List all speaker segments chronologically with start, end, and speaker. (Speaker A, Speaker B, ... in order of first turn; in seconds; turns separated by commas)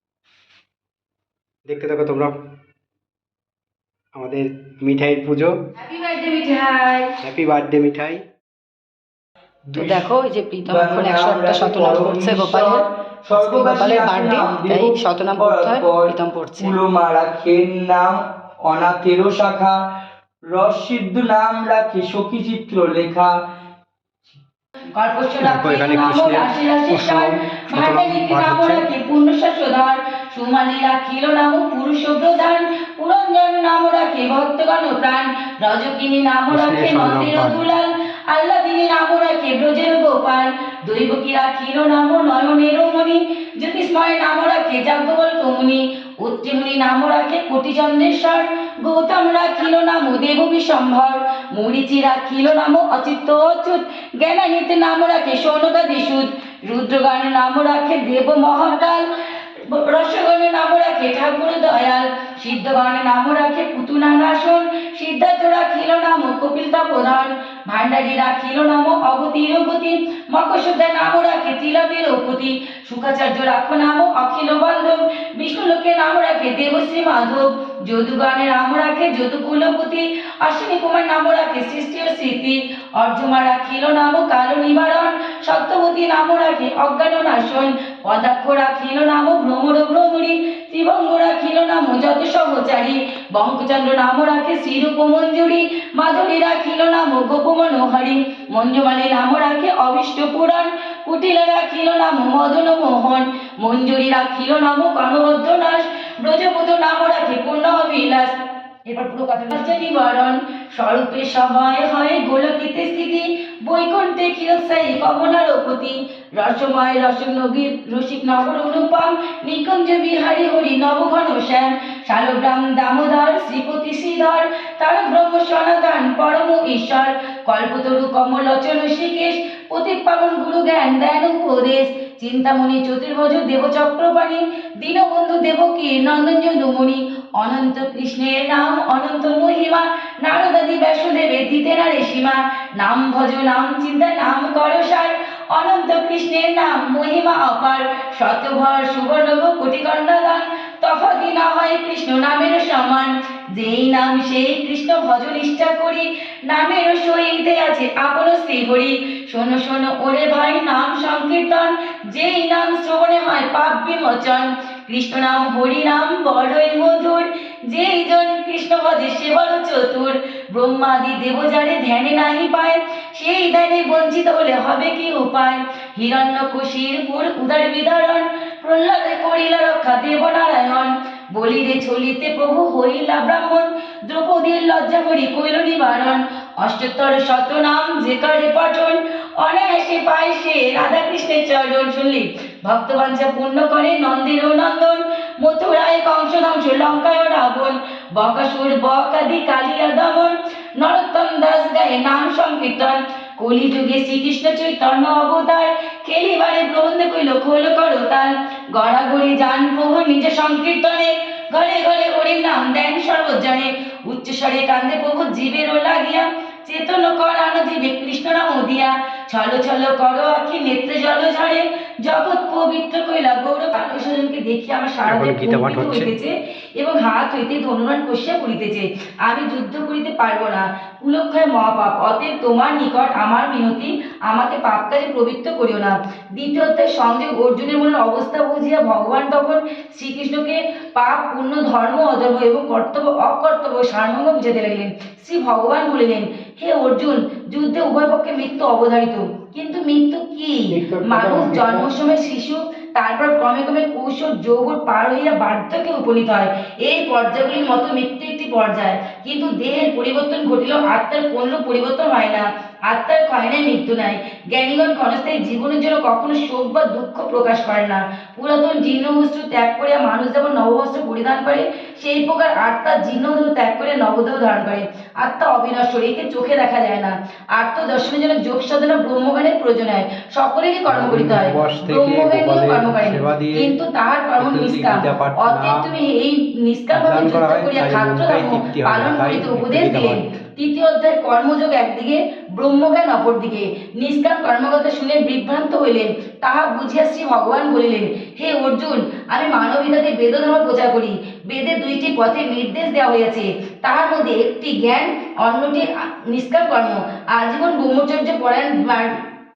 Speaker A: 1.7-2.3, Speaker A: 4.2-5.5, Speaker B: 5.8-7.2, Speaker A: 7.2-8.2, Speaker C: 9.7-10.0, Speaker B: 9.7-16.8, Speaker C: 10.7-19.8, Speaker C: 20.5-23.3, Speaker B: 24.9-59.0, Speaker A: 25.4-28.8, Speaker A: 36.5-37.7, Speaker B: 59.6-309.2, Speaker A: 225.0-226.1, Speaker C: 250.8-251.8, Speaker A: 280.9-283.7, Speaker A: 284.4-285.9, Speaker A: 286.9-290.2